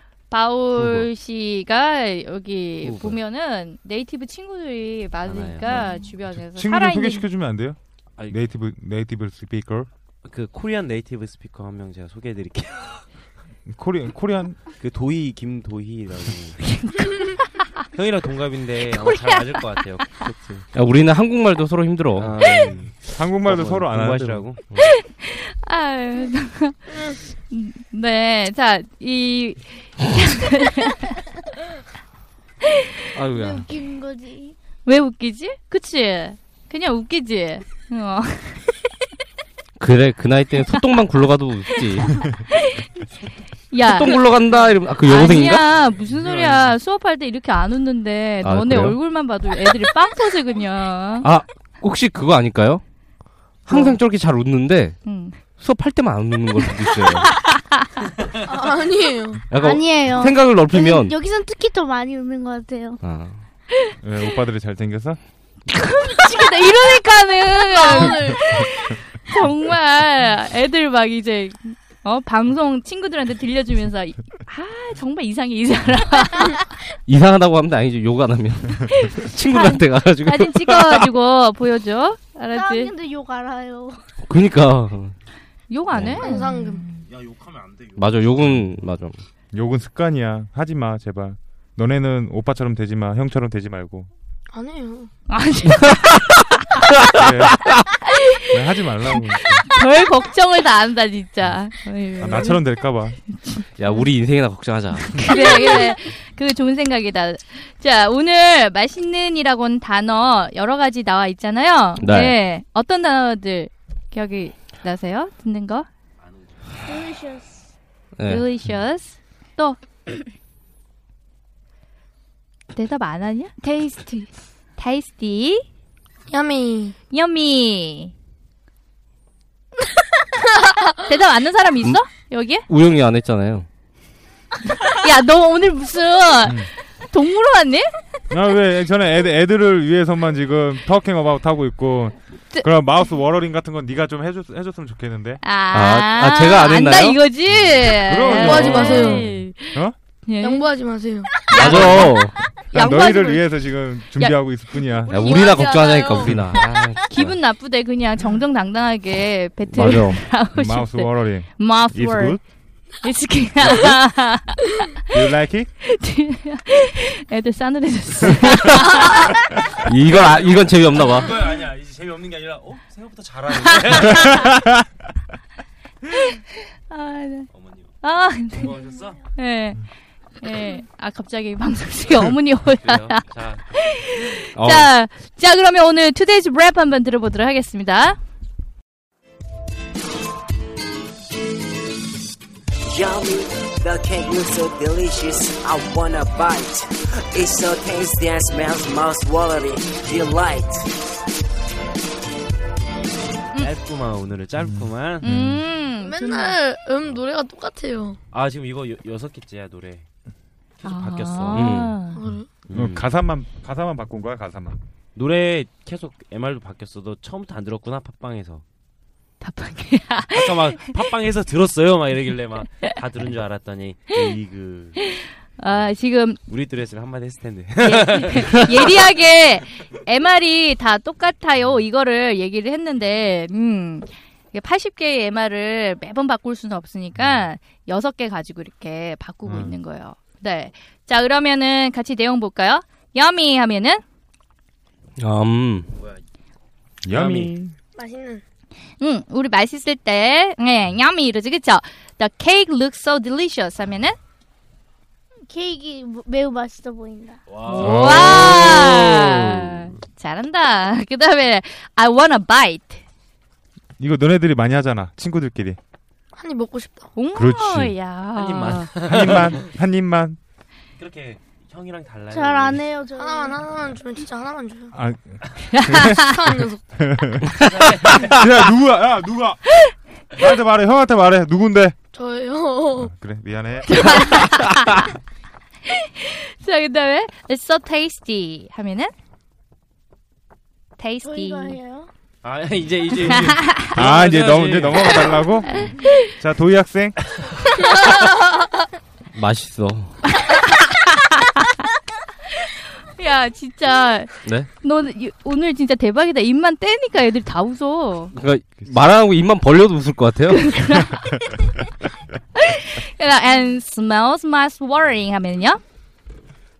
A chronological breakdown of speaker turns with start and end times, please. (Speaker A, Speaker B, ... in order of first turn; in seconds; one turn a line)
Speaker A: 0.3-7.3
Speaker B: 0.7-1.1
Speaker B: 2.8-3.2
Speaker B: 5.2-6.1
Speaker C: 6.4-9.9
Speaker B: 10.2-13.1
Speaker C: 13.7-14.6
Speaker B: 14.8-16.8
Speaker A: 16.8-17.6
Speaker B: 17.9-20.6
Speaker A: 19.0-19.4
Speaker D: 20.7-22.4
Speaker B: 22.1-24.8
Speaker C: 23.1-24.4
Speaker A: 24.8-31.2
Speaker D: 33.1-33.7
Speaker E: 33.3-34.5
Speaker A: 34.8-38.7
Speaker D: 39.8-42.2
Speaker A: 43.7-51.3
Speaker D: 43.8-45.6
Speaker D: 48.4-49.1
Speaker D: 51.2-52.8
Speaker D: 53.6-55.0
Speaker A: 53.7-54.0
Speaker A: 55.0-55.4
Speaker D: 55.6-57.4
Speaker A: 57.4-57.8
Speaker F: 58.4-59.4
Speaker D: 59.5-61.2
Speaker E: 59.5-63.0
Speaker D: 63.0-63.4
Speaker C: 64.0-65.2
Speaker A: 65.7-76.7
Speaker F: 67.7-68.4
Speaker D: 77.1-81.0
Speaker A: 78.9-82.9
Speaker E: 82.5-84.0
Speaker D: 84.3-85.1
Speaker A: 85.7-87.0
Speaker D: 85.9-86.2
Speaker F: 86.2-86.8
Speaker B: 87.0-88.4
Speaker D: 88.0-89.2
Speaker C: 89.5-94.1
Speaker F: 94.5-95.1
Speaker A: 95.3-96.2
Speaker C: 97.1-97.6
Speaker C: 98.5-99.7
Speaker A: 99.7-102.7
Speaker C: 102.2-103.2
Speaker A: 103.4-104.0
Speaker D: 103.8-105.5
Speaker A: 105.2-115.9
Speaker D: 112.0-112.4
Speaker B: 116.2-116.6
Speaker E: 116.8-117.6
Speaker D: 118.2-118.4
Speaker A: 118.2-119.8
Speaker A: 122.7-125.6
Speaker F: 126.3-126.9
Speaker A: 127.1-128.1
Speaker A: 130.9-132.7
Speaker D: 132.7-133.7
Speaker A: 134.8-137.9
Speaker C: 136.4-136.7
Speaker C: 138.3-145.4
Speaker A: 145.4-150.7
Speaker D: 145.7-147.2
Speaker C: 147.5-149.9
Speaker F: 148.3-149.3
Speaker F: 150.4-151.4
Speaker A: 151.5-153.5
Speaker D: 151.5-152.3
Speaker C: 151.6-155.2
Speaker A: 154.1-154.4
Speaker D: 155.1-157.3
Speaker F: 155.2-156.3
Speaker A: 155.3-155.6
Speaker C: 156.2-156.5
Speaker A: 157.0-162.4
Speaker D: 159.7-160.2
Speaker C: 160.5-162.4
Speaker A: 163.0-165.0
Speaker C: 163.6-163.9
Speaker C: 165.1-165.7
Speaker A: 165.8-169.3
Speaker D: 169.8-171.3
Speaker B: 170.1-174.6
Speaker A: 176.3-177.5
Speaker B: 177.5-178.0
Speaker A: 178.0-178.8
Speaker B: 178.5-179.2
Speaker A: 179.3-179.8
Speaker A: 180.4-188.2
Speaker B: 182.8-183.7
Speaker D: 184.6-184.9
Speaker G: 192.8-201.0
Speaker B: 203.5-205.2
Speaker C: 204.6-205.7
Speaker A: 205.2-206.6
Speaker F: 206.0-208.2
Speaker B: 208.3-210.1
Speaker B: 210.8-211.7
Speaker A: 210.8-212.2
Speaker D: 211.5-212.0
Speaker F: 212.1-212.5
Speaker B: 212.7-213.1
Speaker C: 212.7-214.8
Speaker B: 215.1-218.6
Speaker A: 219.4-220.8
Speaker B: 220.3-225.0
Speaker A: 225.0-226.4
Speaker B: 226.5-229.1
Speaker A: 227.8-244.0
Speaker C: 237.2-237.5
Speaker C: 239.4-239.8
Speaker D: 245.2-245.9
Speaker B: 246.0-246.2
Speaker C: 247.0-247.7
Speaker B: 247.1-247.6
Speaker F: 248.0-248.4
Speaker A: 249.0-254.2
Speaker E: 255.5-257.4
Speaker B: 257.5-258.9
Speaker A: 257.7-263.0
Speaker C: 257.7-259.8
Speaker C: 264.0-265.8
Speaker F: 266.3-267.1
Speaker A: 267.1-268.9
Speaker C: 267.3-267.9
Speaker B: 268.3-269.7
Speaker C: 269.0-270.4
Speaker B: 271.0-272.9
Speaker E: 272.3-273.6
Speaker F: 273.1-274.9
Speaker C: 274.9-276.4
Speaker A: 275.7-276.2
Speaker F: 276.1-276.8
Speaker C: 276.9-277.5
Speaker B: 277.5-278.4
Speaker C: 278.1-279.7
Speaker C: 280.3-281.9
Speaker F: 282.1-283.1
Speaker C: 283.0-284.3
Speaker A: 283.9-285.0
Speaker A: 285.9-289.1
Speaker A: 291.0-291.8
Speaker E: 291.2-292.1
Speaker B: 292.4-295.5
Speaker C: 293.9-297.2
Speaker A: 295.7-296.2
Speaker D: 299.3-300.1
Speaker A: 300.4-301.6
Speaker A: 302.6-308.3
Speaker D: 308.3-310.8
Speaker A: 310.5-311.6
Speaker A: 312.6-315.8